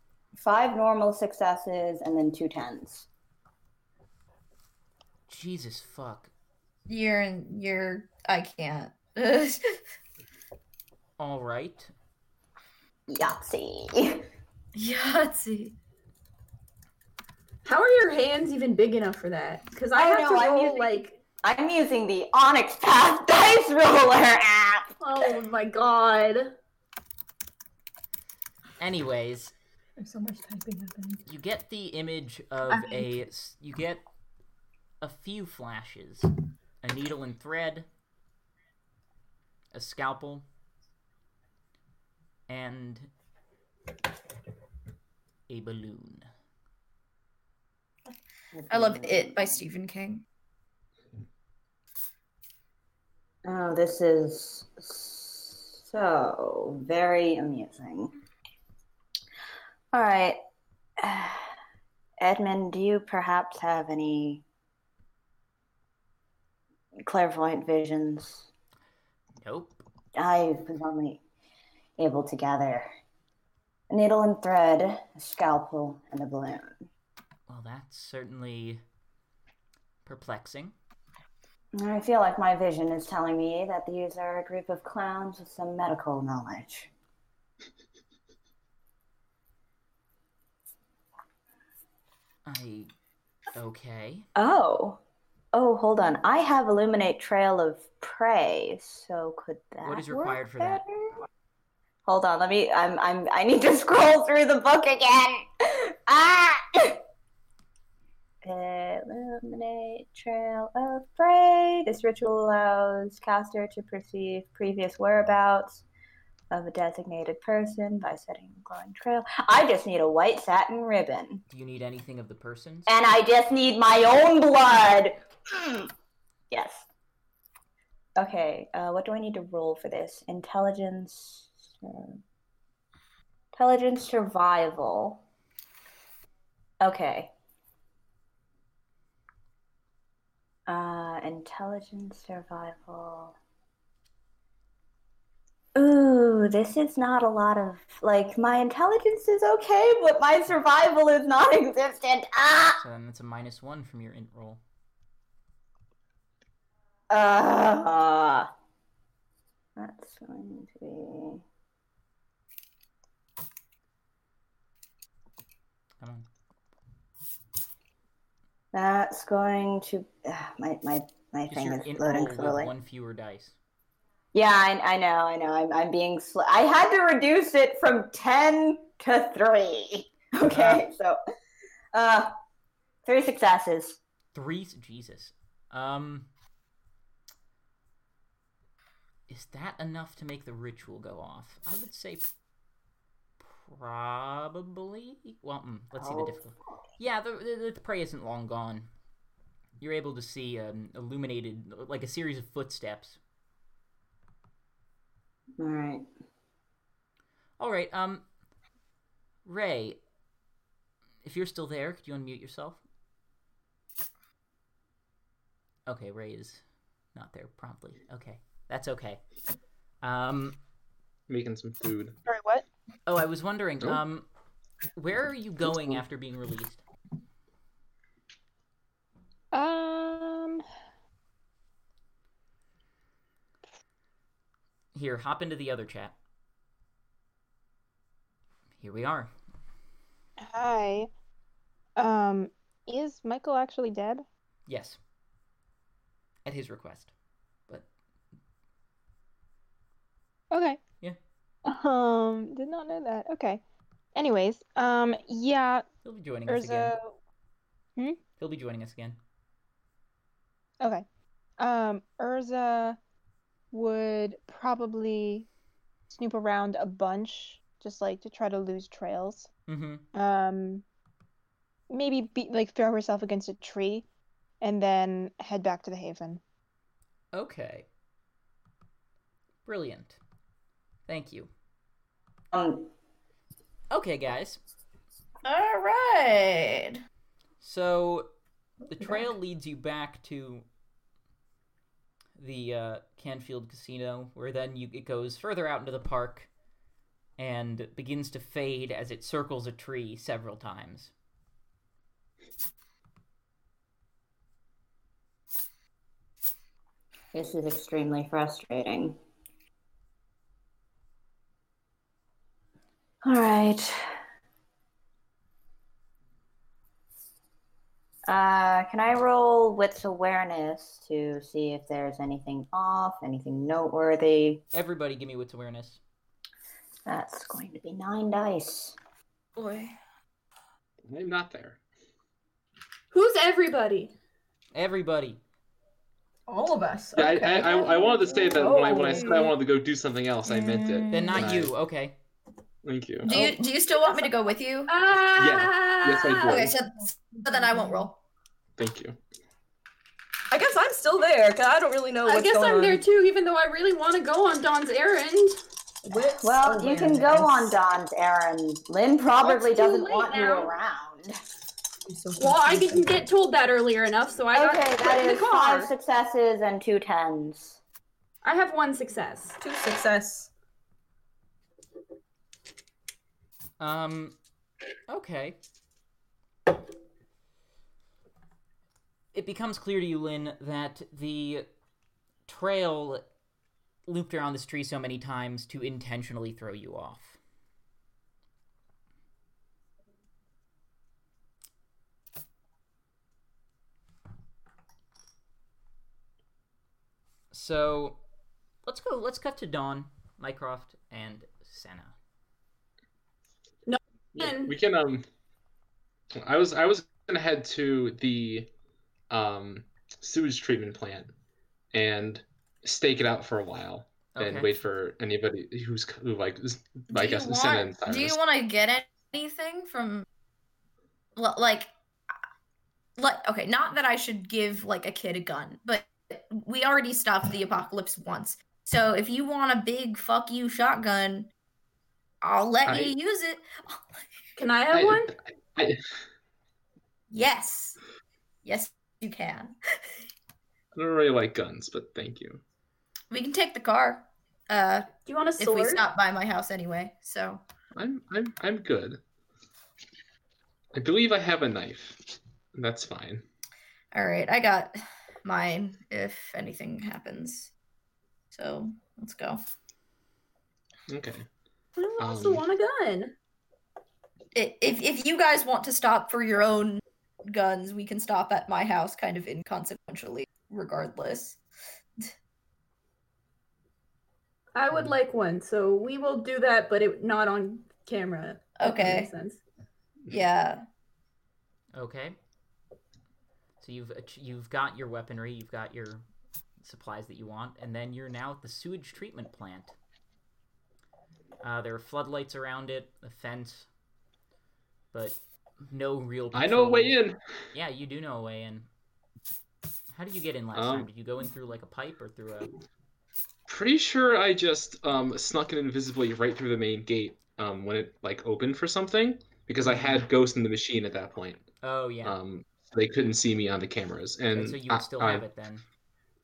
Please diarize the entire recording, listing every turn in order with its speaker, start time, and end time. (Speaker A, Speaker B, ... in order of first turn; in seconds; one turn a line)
Speaker A: 0.3-3.1
Speaker B: 5.3-6.3
Speaker C: 6.8-9.8
Speaker B: 11.2-11.9
Speaker A: 13.1-14.3
Speaker C: 14.7-15.7
Speaker D: 17.6-21.2
Speaker A: 19.9-24.9
Speaker D: 25.0-26.5
Speaker B: 28.8-29.5
Speaker E: 30.0-31.2
Speaker B: 31.2-34.0
Speaker B: 35.0-37.9
Speaker B: 39.7-40.4
Speaker B: 42.5-43.1
Speaker B: 45.5-46.3
Speaker A: 48.5-49.6
Speaker C: 48.7-50.2
Speaker A: 53.4-58.1
Speaker A: 59.9-60.4
Speaker A: 61.0-61.5
Speaker A: 62.2-64.4
Speaker A: 67.0-68.5
Speaker B: 69.4-69.8
Speaker A: 70.2-71.2
Speaker A: 72.0-72.9
Speaker A: 73.9-76.8
Speaker B: 77.5-78.8
Speaker B: 80.0-80.7
Speaker A: 81.7-86.9
Speaker B: 92.5-92.9
Speaker B: 93.5-94.3
Speaker A: 94.3-95.0
Speaker A: 95.5-101.2
Speaker B: 99.8-100.8
Speaker A: 102.0-107.0
Speaker A: 108.4-115.8
Speaker A: 116.5-121.4
Speaker B: 121.5-122.9
Speaker A: 122.9-125.9
Speaker A: 126.5-126.9
Speaker A: 128.2-132.2
Speaker A: 133.5-135.2
Speaker A: 136.8-137.3
Speaker A: 140.7-143.3
Speaker A: 145.7-152.8
Speaker B: 152.8-154.6
Speaker A: 157.1-158.5
Speaker A: 159.8-161.4
Speaker B: 166.0-166.2
Speaker A: 168.7-172.7
Speaker B: 171.5-173.6
Speaker A: 174.3-181.2
Speaker B: 180.5-180.8
Speaker A: 181.9-182.4
Speaker A: 183.0-184.0
Speaker B: 184.3-186.3
Speaker B: 189.3-192.2
Speaker B: 193.4-198.9
Speaker A: 195.9-196.8
Speaker B: 199.8-203.2
Speaker A: 205.6-206.1
Speaker B: 207.6-208.2
Speaker B: 209.4-210.0
Speaker B: 211.2-212.8
Speaker B: 215.9-216.6
Speaker B: 217.1-219.2
Speaker B: 220.0-220.6
Speaker F: 221.3-222.1
Speaker G: 222.3-222.6
Speaker B: 223.1-224.2
Speaker B: 224.9-226.8
Speaker G: 229.5-230.6
Speaker B: 234.9-236.1
Speaker B: 238.8-239.3
Speaker G: 240.4-241.1
Speaker G: 242.0-244.2
Speaker B: 244.7-245.0
Speaker B: 246.4-247.1
Speaker G: 250.5-250.8
Speaker G: 251.7-253.6
Speaker G: 254.1-255.8
Speaker B: 256.0-256.9
Speaker G: 256.5-257.2
Speaker B: 258.4-259.2
Speaker G: 261.6-263.0
Speaker G: 263.7-265.5
Speaker G: 266.1-269.5
Speaker B: 269.7-270.0
Speaker G: 270.1-270.8
Speaker G: 271.9-274.0
Speaker G: 274.6-276.4
Speaker B: 277.3-277.9
Speaker B: 279.6-280.2
Speaker B: 281.1-281.5
Speaker A: 282.5-282.9
Speaker B: 283.9-284.6
Speaker C: 285.4-287.0
Speaker B: 287.6-288.3
Speaker B: 288.8-290.6
Speaker B: 292.4-296.5
Speaker B: 297.4-301.1
Speaker A: 307.3-309.2
Speaker A: 313.2-314.1
Speaker A: 318.3-324.6
Speaker B: 324.7-326.0
Speaker A: 327.1-329.0
Speaker C: 329.6-329.9
Speaker F: 331.1-331.8
Speaker D: 333.1-334.1
Speaker B: 334.7-335.4
Speaker E: 336.5-339.5
Speaker F: 337.1-341.7
Speaker D: 338.6-339.5
Speaker E: 340.5-341.4
Speaker B: 341.1-342.2
Speaker F: 342.8-343.3
Speaker C: 343.2-344.9
Speaker D: 344.9-346.7
Speaker F: 345.3-346.7
Speaker C: 346.5-348.1
Speaker E: 347.7-348.1
Speaker F: 348.8-349.2
Speaker E: 350.5-353.0
Speaker D: 352.2-355.6
Speaker E: 356.0-357.8
Speaker A: 356.4-361.4
Speaker D: 359.4-360.7
Speaker E: 362.1-363.2
Speaker D: 362.4-365.9
Speaker A: 364.5-367.8
Speaker D: 368.4-369.6
Speaker E: 369.6-370.5
Speaker B: 373.8-374.4
Speaker B: 375.1-375.6
Speaker B: 379.3-381.7
Speaker B: 382.5-383.2
Speaker B: 384.1-387.4
Speaker B: 397.5-398.2
Speaker B: 398.8-402.1
Speaker D: 403.9-404.7
Speaker F: 404.4-405.2
Speaker F: 406.3-408.7
Speaker F: 409.3-411.3
Speaker F: 411.9-418.4
Speaker B: 414.3-414.9
Speaker C: 417.1-420.2
Speaker C: 421.4-421.9
Speaker C: 423.2-431.5
Speaker C: 432.4-434.1
Speaker F: 432.8-433.1
Speaker D: 434.6-435.3
Speaker F: 434.9-436.0
Speaker C: 437.3-438.0
Speaker C: 438.6-439.7
Speaker F: 440.9-442.6
Speaker C: 443.3-447.6
Speaker D: 445.2-446.0
Speaker F: 447.9-449.2
Speaker F: 450.9-452.2
Speaker F: 452.7-453.4
Speaker C: 454.1-457.7
Speaker C: 458.5-459.6
Speaker F: 461.1-461.4
Speaker D: 461.9-463.3
Speaker F: 462.2-462.6
Speaker C: 464.5-471.6
Speaker D: 474.7-479.6
Speaker C: 478.8-479.3
Speaker C: 480.3-480.8
Speaker B: 481.9-482.4
Speaker B: 483.8-486.2
Speaker B: 486.8-489.9
Speaker B: 491.6-493.9
Speaker B: 495.1-497.2
Speaker F: 496.5-497.4
Speaker B: 497.7-498.9
Speaker B: 500.1-502.7
Speaker F: 500.7-501.1
Speaker F: 503.7-511.6
Speaker B: 509.8-510.2
Speaker B: 511.8-512.4
Speaker F: 512.2-515.5
Speaker B: 514.5-515.8